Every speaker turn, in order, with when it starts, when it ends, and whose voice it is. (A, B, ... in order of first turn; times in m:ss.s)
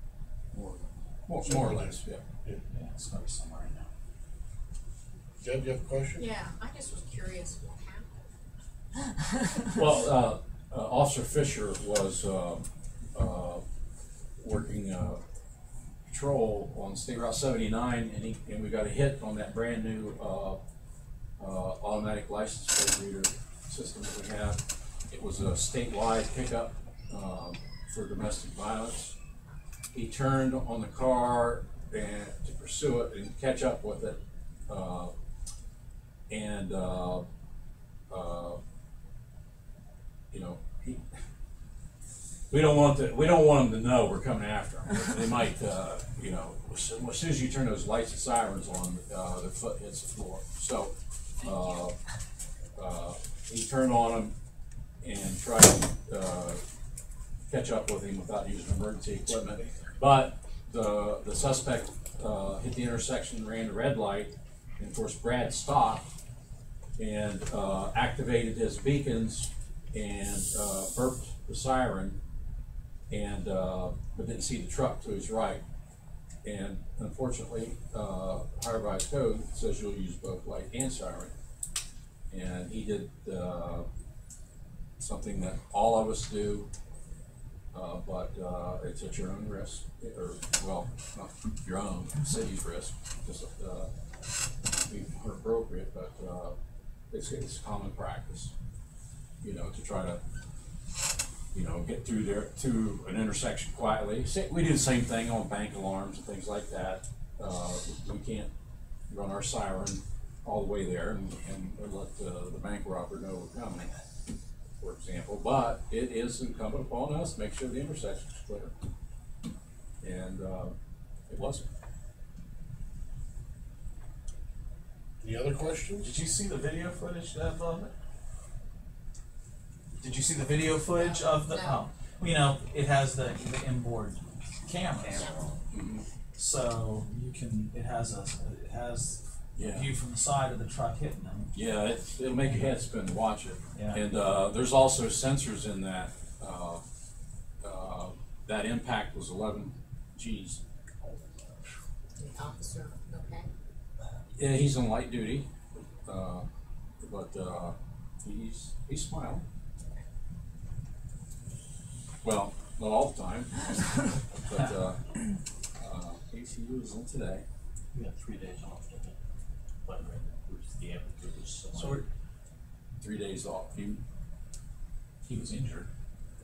0:00.5-0:02.2 A
0:01.4-0:02.6 B
0:02.7-0:03.9 C
0:05.4-0:06.3 B
0:06.2-0:08.1 D
0:09.7-0:13.6 A
0:14.4-0:15.2 A
0:16.1-0:20.6 A
0:21.4-0:29.2 A
0:29.9-0:35.1 A
0:36.3-0:37.2 A
0:38.1-0:38.6 A
0:40.3-0:41.0 A
0:42.5-0:52.0 A
0:52.8-0:54.3 A
0:55.0-0:56.6 A
0:57.5-1:06.1 A
1:07.0-1:12.2 A
1:13.1-1:15.6 A
1:16.4-1:21.3 A
1:22.3-1:23.9 A
1:25.0-1:26.7 A
1:27.7-1:33.9 A
1:34.9-1:36.6 A
1:37.1-1:38.5 A
1:39.4-1:40.2 A
1:41.5-1:48.5 A
1:49.1-1:53.9 A
1:54.8-1:58.7 A
2:00.0-2:00.8 A
2:01.3-2:01.7 A
2:05.2-2:06.1 B
2:06.0-2:07.9 C
2:10.0-2:15.3 C
2:11.0-2:11.8 D
2:15.2-2:15.5 D
2:15.7-2:16.1 A
2:16.4-2:21.5 C
2:19.6-2:19.9 A
2:21.5-2:26.8 A
2:23.8-2:24.0 C
2:27.6-2:30.6 A
2:32.2-2:33.5 D
2:34.4-2:35.5 A
2:36.0-2:36.5 A
2:37.0-2:39.4 A
2:42.2-2:45.0 A
2:45.8-2:47.4 A
2:47.9-2:49.2 E
2:49.9-2:52.0 E
2:53.0-2:54.0 A
2:55.2-2:55.9 C